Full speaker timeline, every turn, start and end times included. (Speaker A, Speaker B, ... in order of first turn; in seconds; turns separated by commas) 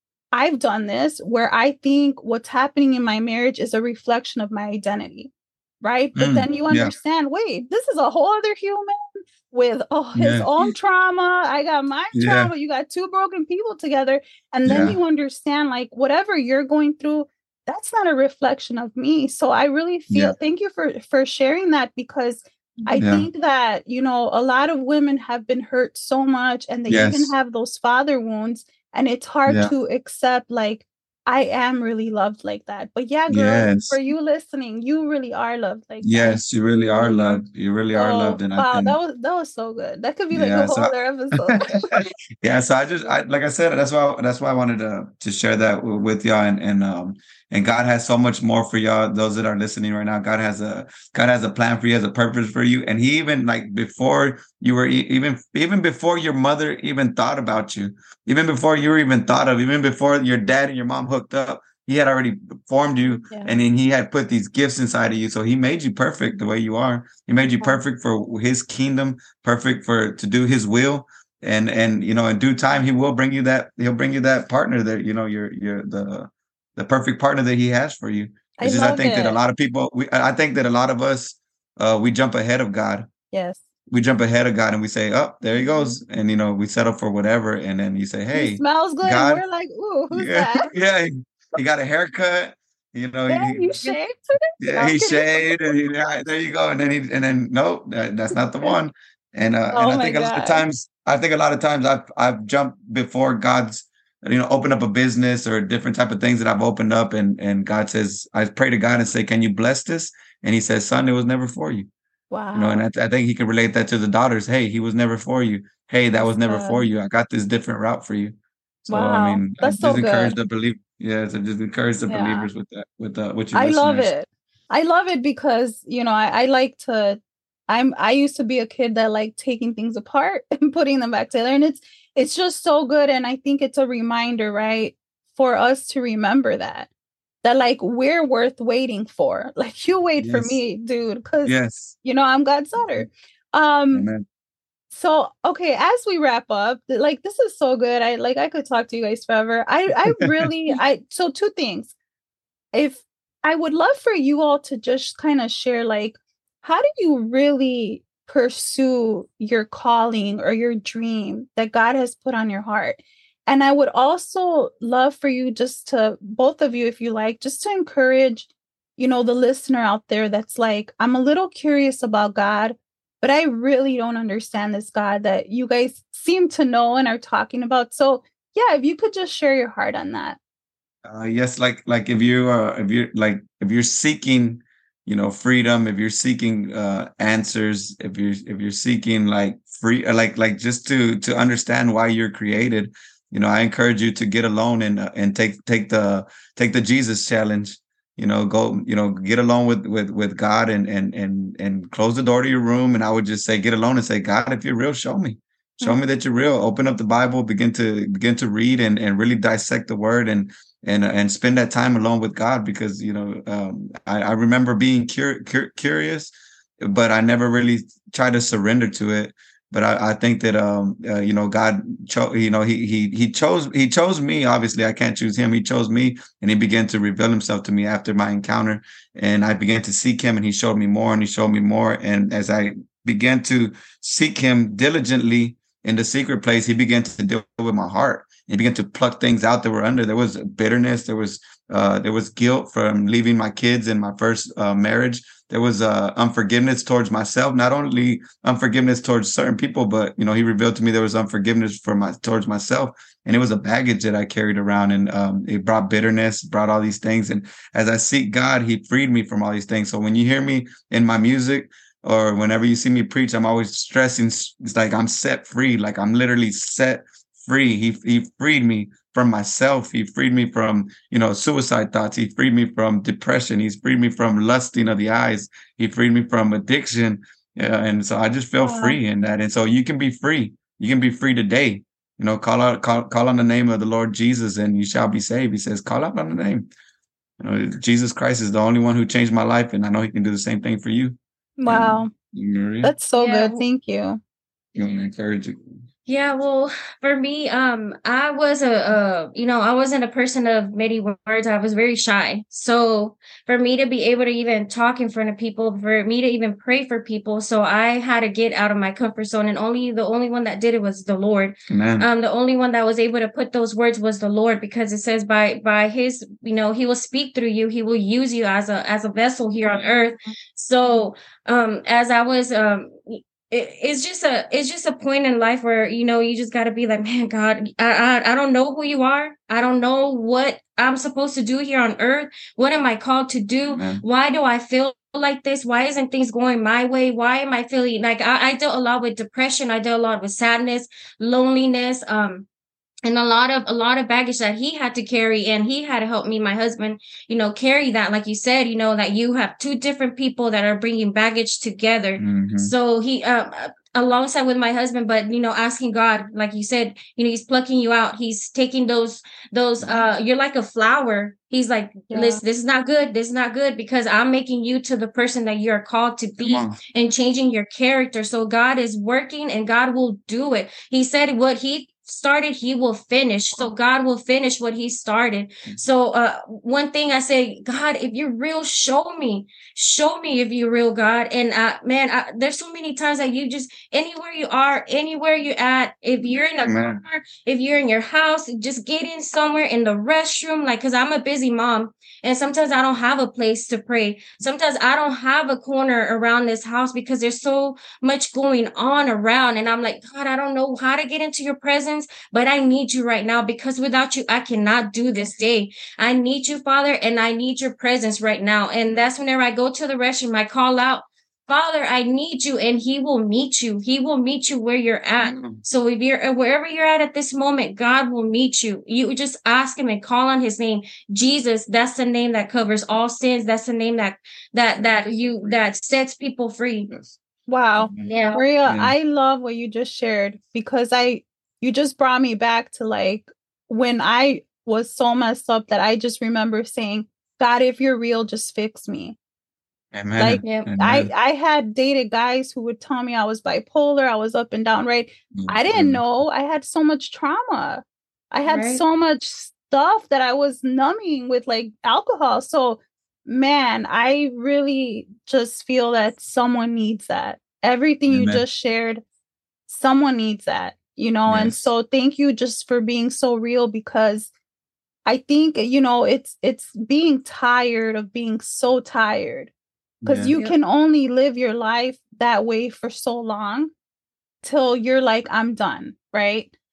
Speaker A: 0.3-37.4, Speaker B: 6.2-6.9, Speaker B: 10.2-10.5, Speaker B: 12.1-12.5, Speaker B: 14.6-15.0, Speaker B: 23.0-23.3, Speaker B: 26.9-27.3, Speaker B: 29.5-29.7, Speaker B: 33.3-34.0, Speaker B: 36.0-39.0, Speaker A: 37.9-42.0, Speaker B: 40.3-83.1, Speaker A: 78.6-79.4, Speaker A: 83.3-83.6, Speaker B: 83.9-89.4, Speaker A: 88.3-90.7, Speaker B: 90.1-93.7, Speaker A: 93.3-95.6, Speaker B: 94.6-111.9, Speaker A: 99.7-100.6, Speaker A: 112.3-112.8, Speaker B: 112.5-124.1, Speaker A: 116.2-116.8, Speaker A: 118.9-120.3, Speaker A: 122.1-122.5, Speaker A: 123.5-136.9, Speaker A: 137.4-144.1, Speaker B: 140.2-140.6, Speaker B: 141.4-142.0, Speaker B: 143.9-144.2, Speaker A: 144.9-151.9, Speaker B: 150.2-150.8, Speaker A: 152.7-180.4, Speaker B: 181.0-286.7, Speaker A: 278.6-278.9, Speaker B: 287.4-292.9, Speaker A: 291.6-292.1, Speaker A: 292.8-294.2, Speaker C: 293.1-293.6, Speaker B: 294.7-295.8, Speaker C: 296.1-342.5, Speaker B: 311.7-312.1, Speaker B: 333.7-334.0, Speaker C: 343.0-426.9, Speaker B: 352.2-352.7, Speaker A: 362.1-362.4, Speaker B: 366.4-366.8, Speaker B: 386.6-387.0, Speaker B: 415.3-415.6, Speaker A: 427.5-439.2, Speaker C: 428.0-428.4, Speaker B: 428.6-428.9, Speaker B: 439.9-441.1, Speaker A: 440.2-459.0, Speaker C: 440.4-440.7, Speaker B: 445.3-446.0, Speaker C: 448.4-448.8, Speaker B: 458.1-458.4, Speaker A: 459.7-464.3, Speaker B: 461.3-461.7, Speaker A: 465.1-469.5, Speaker B: 470.0-470.3, Speaker A: 470.0-473.7, Speaker A: 474.4-476.5